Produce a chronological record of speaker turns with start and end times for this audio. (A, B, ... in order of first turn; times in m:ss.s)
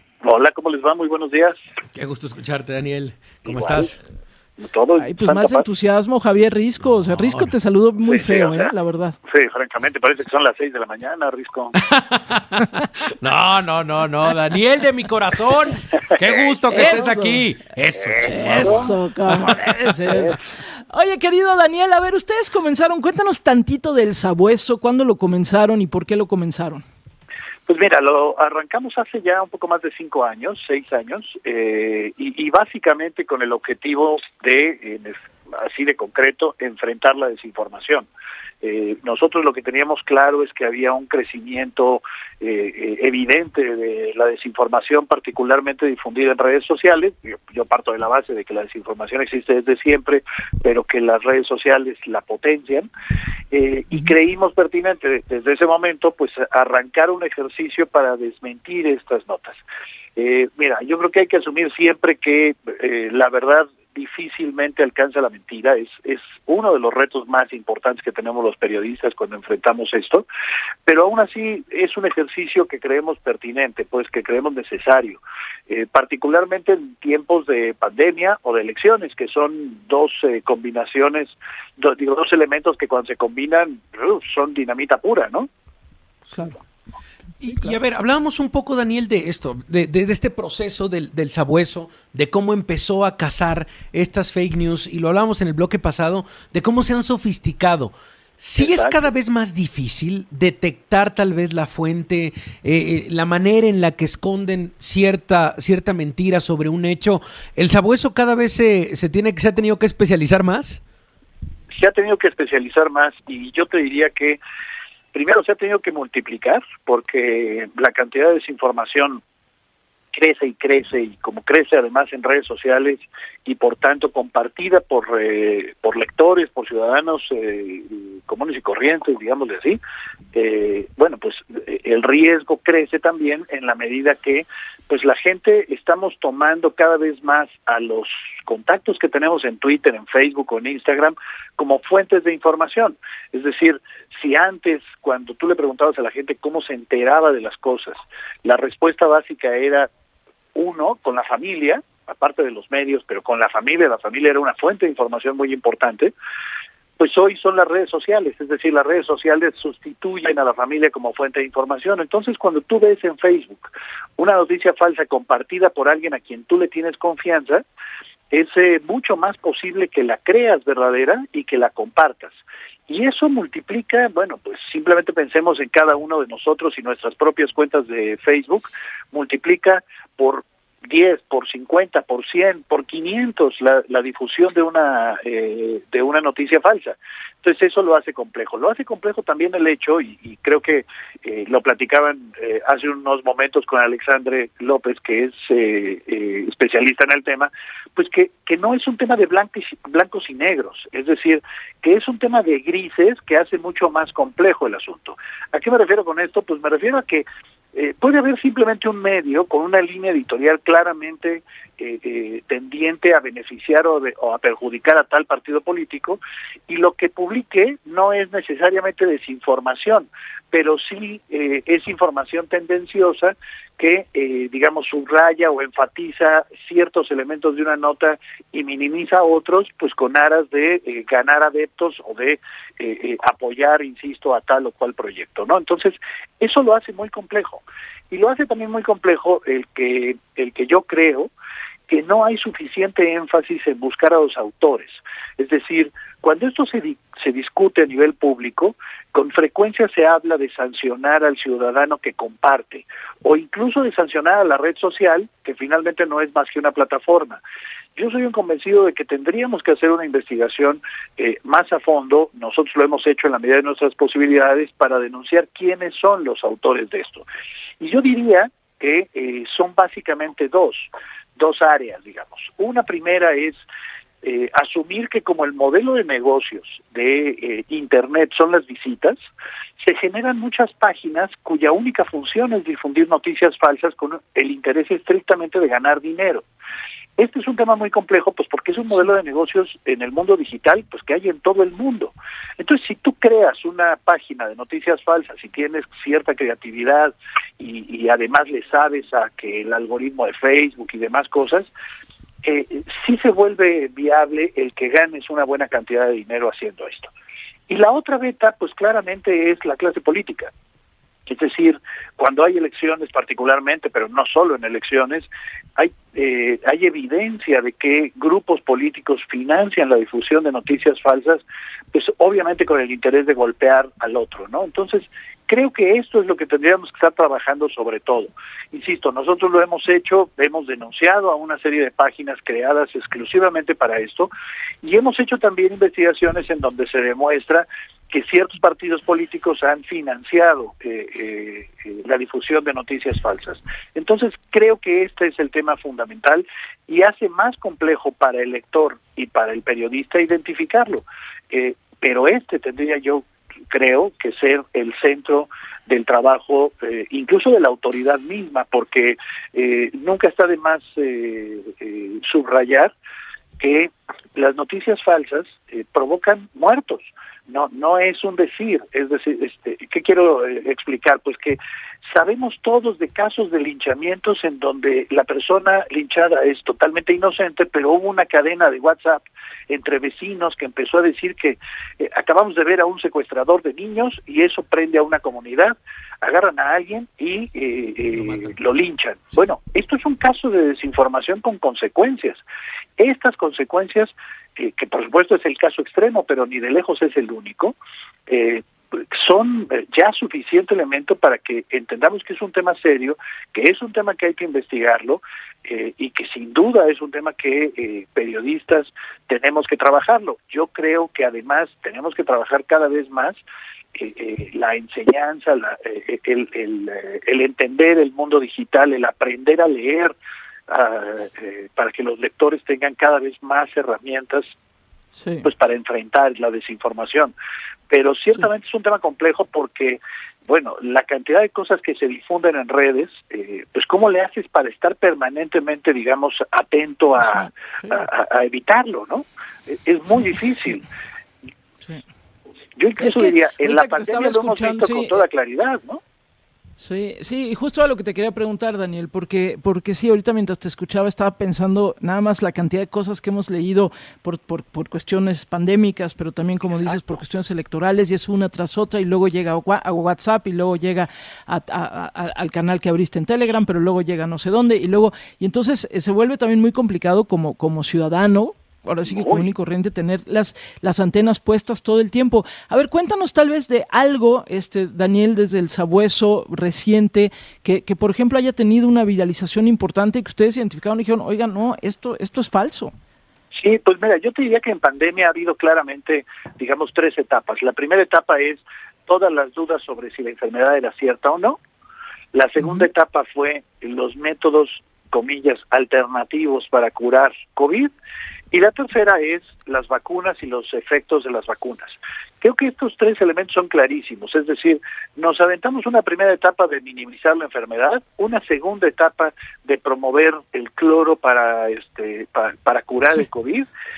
0:00.2-0:01.6 A
0:01.9-0:04.0 B
0:03.4-0:04.0 A
0:04.6-0:05.7 A
0:05.0-0:09.2 C
0:07.1-0:07.5 B
0:08.0-0:08.7 A
0:09.3-0:11.8 A
0:11.8-0:20.4 B
0:16.2-0:17.0 A
0:16.7-0:17.4 C
0:18.2-0:26.8 C
0:18.5-0:18.9 A
0:27.7-0:38.1 A
0:38.6-0:52.9 A
0:53.5-0:59.6 A
1:00.2-1:10.2 A
1:10.8-1:25.5 A
1:26.3-1:26.6 C
1:27.4-1:50.8 B
1:27.5-1:27.8 C
1:38.6-1:39.1 A
1:51.7-1:54.4 A
1:55.1-1:59.2 A
2:00.1-2:09.8 A
2:10.3-2:29.9 A
2:30.6-2:36.1 A
2:37.0-2:47.6 A
2:48.3-4:01.3 A
4:01.9-4:17.4 A
4:18.0-4:27.2 A
4:27.8-4:33.6 A
4:34.2-4:39.2 A
4:39.8-4:46.4 A
4:47.2-5:01.7 A
5:02.4-5:07.1 A
5:07.7-5:10.5 A
5:11.3-5:34.3 A
5:34.8-6:02.9 A
6:03.6-6:32.4 A
6:33.0-6:37.8 A
6:38.3-6:53.4 A
6:53.9-7:00.1 A
7:00.7-7:04.5 A
7:05.2-7:05.5 C
7:05.4-7:07.3 A
7:07.9-7:20.8 A
7:17.2-7:18.0 C
7:22.8-7:26.0 A
7:23.0-7:25.2 C
7:26.8-8:02.9 C
7:49.1-7:49.4 A
8:03.5-8:11.6 A
8:12.3-8:17.9 A
8:12.6-8:12.9 C
8:18.5-8:33.7 A